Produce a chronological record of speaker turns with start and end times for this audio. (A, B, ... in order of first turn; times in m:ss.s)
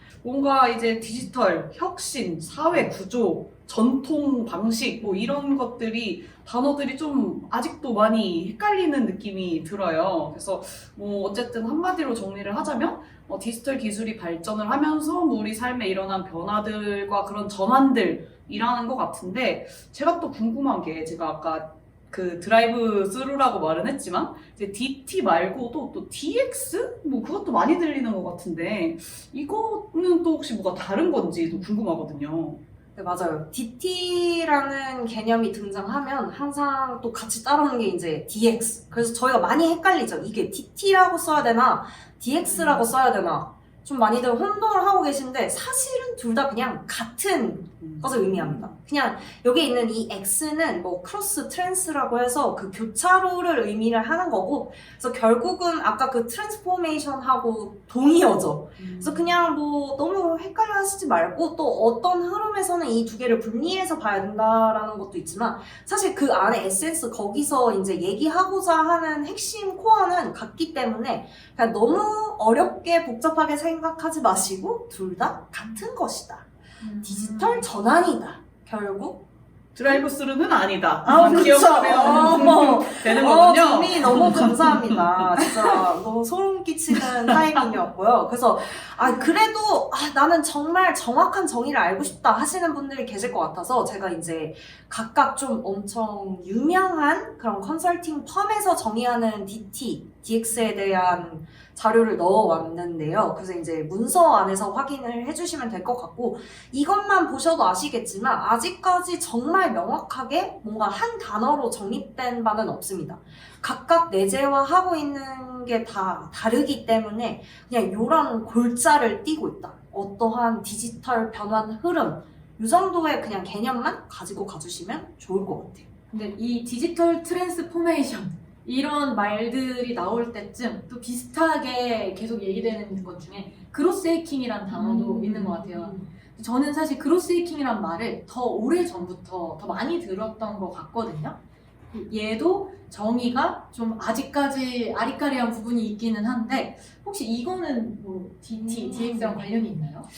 0:00.2-0:32.6 A
0:33.0-1:16.5 B
0:47.8-0:48.3 A
1:16.8-1:17.7 C
1:17.0-1:19.3 B
1:19.8-1:25.8 A
1:21.1-2:05.9 B
2:06.1-2:21.4 C
2:14.7-2:16.0 B
2:21.9-2:30.1 C
2:28.6-2:29.4 B